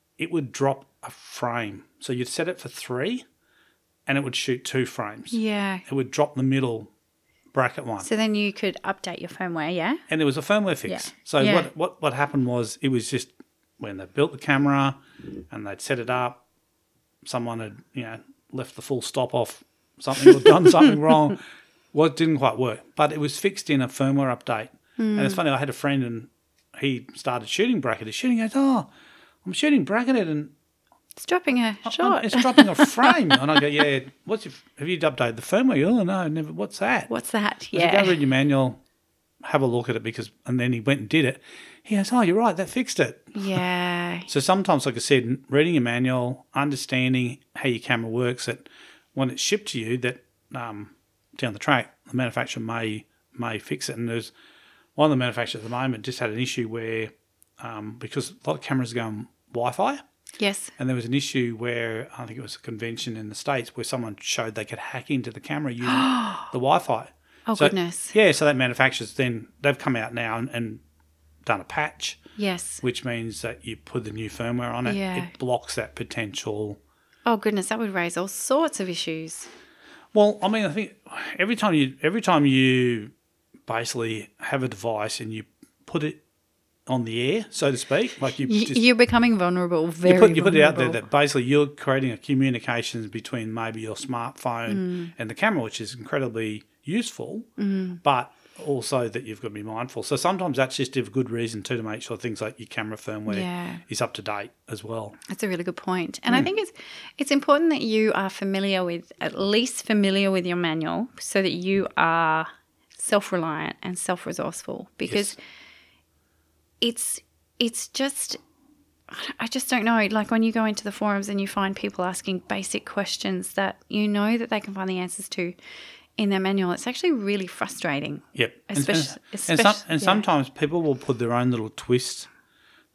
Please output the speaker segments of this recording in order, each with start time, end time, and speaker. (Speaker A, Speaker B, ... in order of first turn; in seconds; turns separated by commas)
Speaker A: 0.2-3.2, Speaker A: 4.1-6.9, Speaker B: 5.3-5.8, Speaker A: 7.5-8.1, Speaker B: 8.0-10.0, Speaker A: 10.1-15.0, Speaker B: 10.9-11.7, Speaker A: 15.5-16.4, Speaker A: 17.2-21.4, Speaker A: 21.9-28.9, Speaker B: 25.0-25.4, Speaker A: 29.4-30.5, Speaker B: 31.2-33.6, Speaker A: 31.9-37.1, Speaker B: 37.1-38.2, Speaker A: 37.7-38.8, Speaker A: 39.4-43.6, Speaker B: 43.4-44.3, Speaker A: 44.3-54.3, Speaker A: 55.0-60.0, Speaker B: 60.4-60.7, Speaker A: 60.8-70.8, Speaker B: 65.8-66.5, Speaker B: 67.5-68.2, Speaker A: 71.4-72.2, Speaker B: 72.4-72.8, Speaker A: 72.8-76.8, Speaker B: 74.8-75.3, Speaker B: 77.3-79.5, Speaker A: 80.1-83.1, Speaker A: 83.7-86.2, Speaker A: 86.9-88.8, Speaker B: 88.5-91.0, Speaker A: 90.0-97.5, Speaker B: 94.7-95.1, Speaker B: 97.6-98.0, Speaker A: 98.0-105.2, Speaker B: 103.3-103.8, Speaker B: 105.3-115.4, Speaker A: 115.1-115.3, Speaker B: 116.8-118.4, Speaker B: 119.1-125.5, Speaker B: 126.2-130.2, Speaker A: 128.3-132.3